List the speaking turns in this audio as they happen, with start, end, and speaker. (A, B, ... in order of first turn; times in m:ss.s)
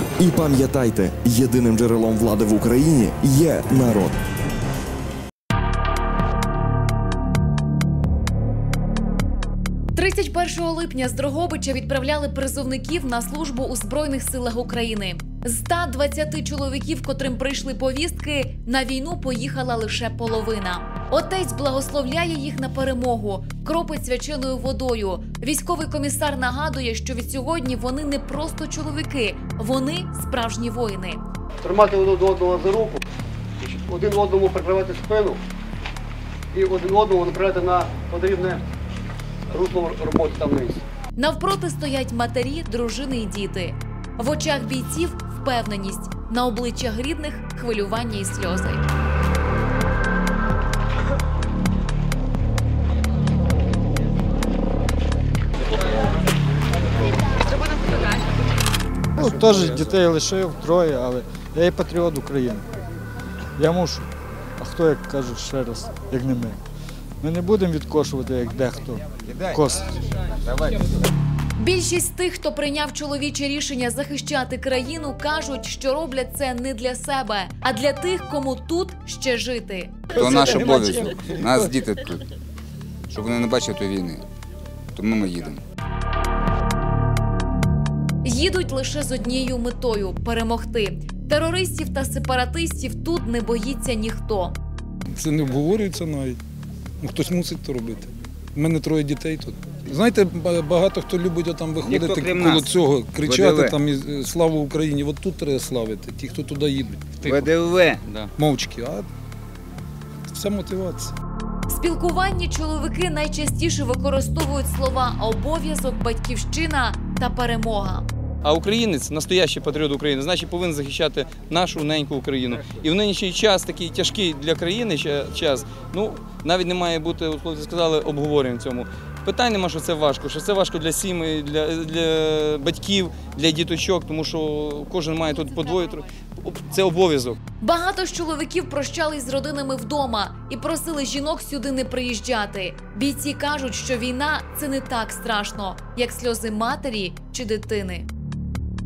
0:00.2-0:04.2 A
0:09.9-0:31.2 B
0:31.6-0:33.0 C
0:33.6-0:35.4 C
0:36.5-0:38.6 C
0:39.5-0:40.8 C
0:41.2-0:48.8 B
0:59.2-1:02.6 D
1:03.6-1:06.6 D
1:07.2-1:09.9 D
1:11.6-1:20.0 B
1:20.1-1:22.2 E
1:23.1-1:24.2 E
1:24.9-1:25.6 E
1:28.2-1:34.6 B
1:35.2-1:36.4 F
1:37.0-1:47.5 F
1:41.8-1:42.7 E
1:43.2-1:43.8 E
1:47.2-1:48.3 G
1:47.3-1:48.0 E
1:48.4-1:49.1 F
1:50.3-1:51.1 F
1:51.7-1:58.1 B
1:58.4-2:17.4 G
2:17.6-2:28.0 B